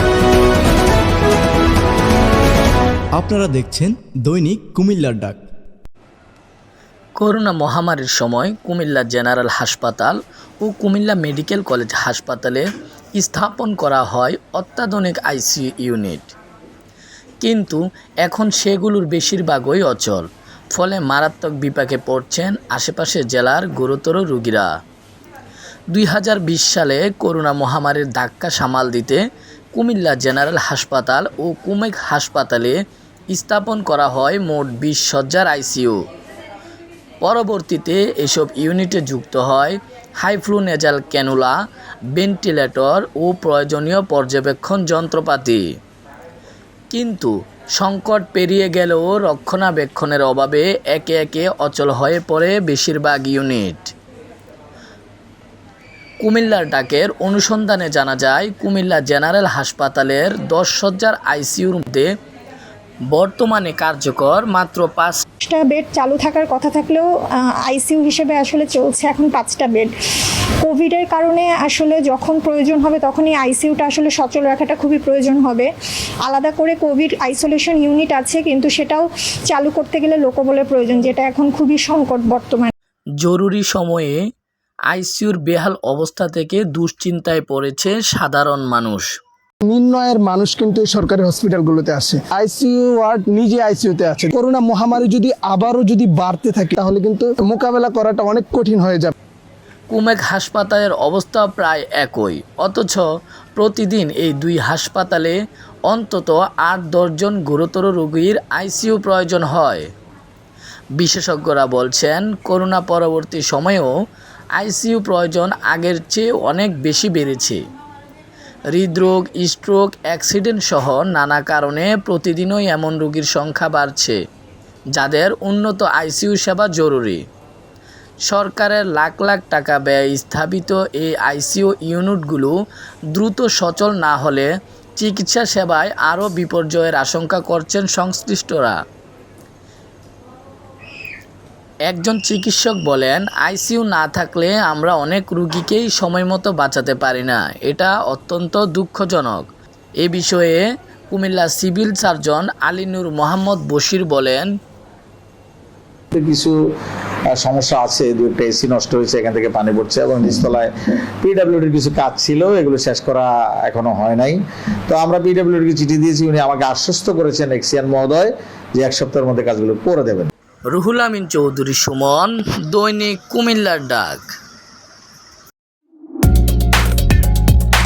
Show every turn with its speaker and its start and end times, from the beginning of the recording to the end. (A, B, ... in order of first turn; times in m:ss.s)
0:03.2-0:05.4 A
0:07.2-0:16.3 B
0:17.4-0:24.7 B
0:25.9-0:29.2 B
0:29.7-0:32.8 B
0:33.3-0:36.0 B
0:37.2-0:41.6 B
0:42.2-0:45.6 B
0:46.9-0:53.9 B
0:56.2-1:02.1 B
1:03.1-1:05.2 B
1:05.4-1:15.7 C
1:16.2-1:22.7 C
1:23.2-1:24.2 B
1:24.9-1:29.1 B
1:29.6-1:39.1 D
1:39.9-1:43.0 B
1:43.6-1:45.4 B
1:45.9-1:49.9 B
1:51.0-1:53.9 B
1:54.6-1:57.6 B
1:58.7-2:04.2 B
2:05.0-2:07.2 B
2:08.3-2:12.5 B
2:13.1-2:18.8 B
2:21.9-2:29.5 B
2:30.0-2:34.5 B
2:36.1-2:36.6 E
2:37.3-2:40.7 E
2:41.2-2:50.3 E
2:50.7-2:54.3 B